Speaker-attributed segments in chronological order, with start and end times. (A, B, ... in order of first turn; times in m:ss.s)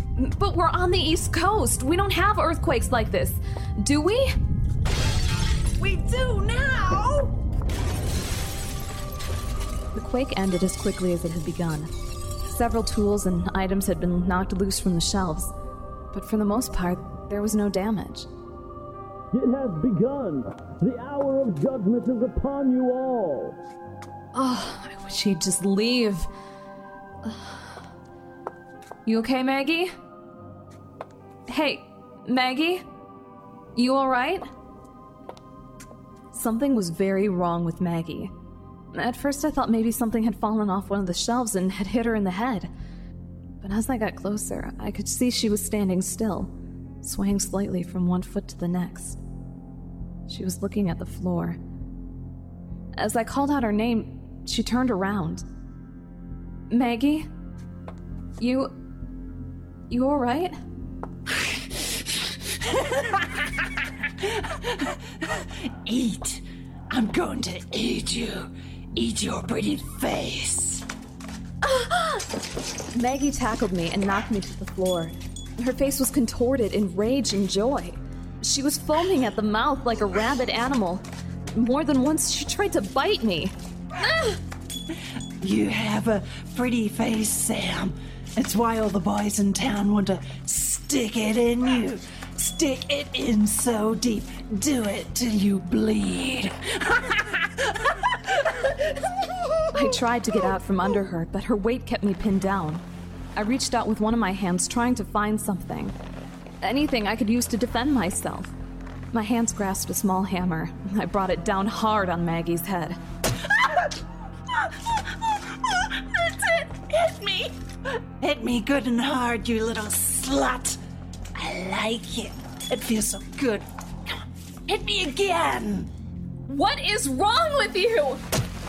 0:00.2-0:04.4 A
0:05.8-0:07.4 B
0:10.0-0:11.9 A
0:12.4-0:15.5 A
0:16.1-0:18.3 A
0:19.3-0:23.6 C
0:24.3-0:26.3 A
0:27.2-0:27.8 A
0:29.0-0:29.9 A
0:31.5-0:32.8 A
0:33.8-0:34.5 A
0:36.3-0:38.3 A
0:38.9-0:42.7 A
0:43.6-0:49.2 A
0:50.3-0:51.6 A
0:53.0-0:55.4 A
0:56.7-0:57.3 A
0:58.4-0:58.7 A
0:59.9-1:00.6 A
1:04.2-1:10.8 B
1:11.6-1:12.3 A
1:12.9-1:24.4 A
1:25.4-1:38.7 B
1:39.7-1:42.8 A
1:43.4-1:45.9 A
1:46.6-1:48.5 A
1:49.1-1:53.0 A
1:54.6-1:54.9 B
1:55.7-1:57.6 B
1:58.2-2:00.8 B
2:01.4-2:05.9 B
2:06.5-2:08.2 A